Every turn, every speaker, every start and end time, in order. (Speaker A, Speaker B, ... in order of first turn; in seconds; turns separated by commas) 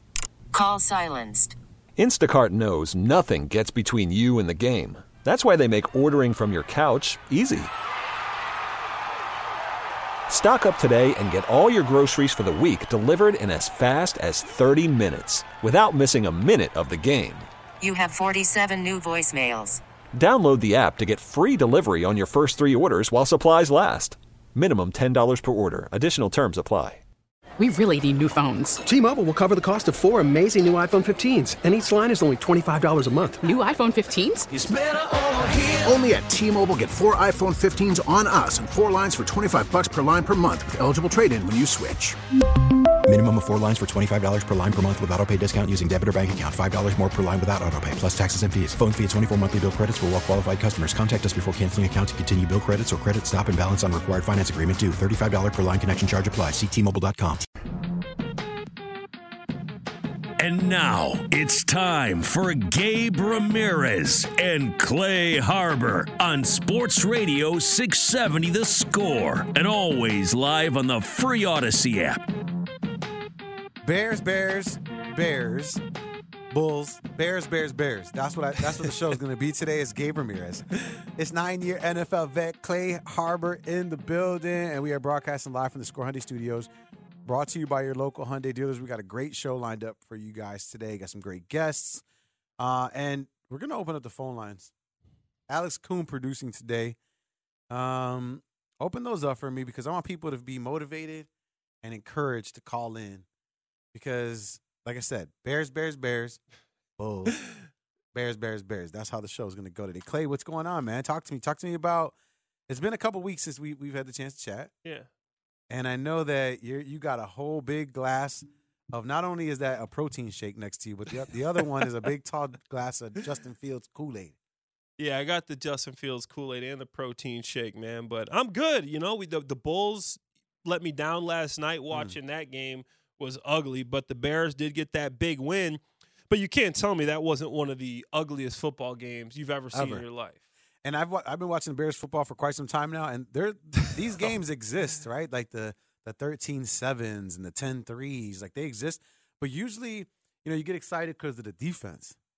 Speaker A: 0.5-1.6, Speaker B: 2.0-7.7, Speaker B: 10.3-17.5, Speaker A: 17.8-19.8, Speaker B: 20.1-27.0, Speaker C: 27.6-28.8, Speaker D: 28.8-33.4, Speaker C: 33.4-34.5, Speaker E: 34.5-42.2, Speaker F: 43.1-57.5, Speaker G: 60.4-72.3, Speaker H: 73.8-75.8, Speaker H: 76.5-86.7, Speaker H: 87.2-92.0, Speaker H: 92.6-94.7, Speaker H: 95.5-97.0, Speaker H: 97.7-101.3, Speaker H: 101.8-103.3, Speaker H: 103.9-106.4, Speaker H: 107.0-107.4, Speaker H: 108.1-112.2, Speaker H: 112.7-114.7, Speaker H: 115.7-124.4, Speaker I: 125.0-140.4, Speaker H: 139.7-140.1, Speaker H: 140.8-152.2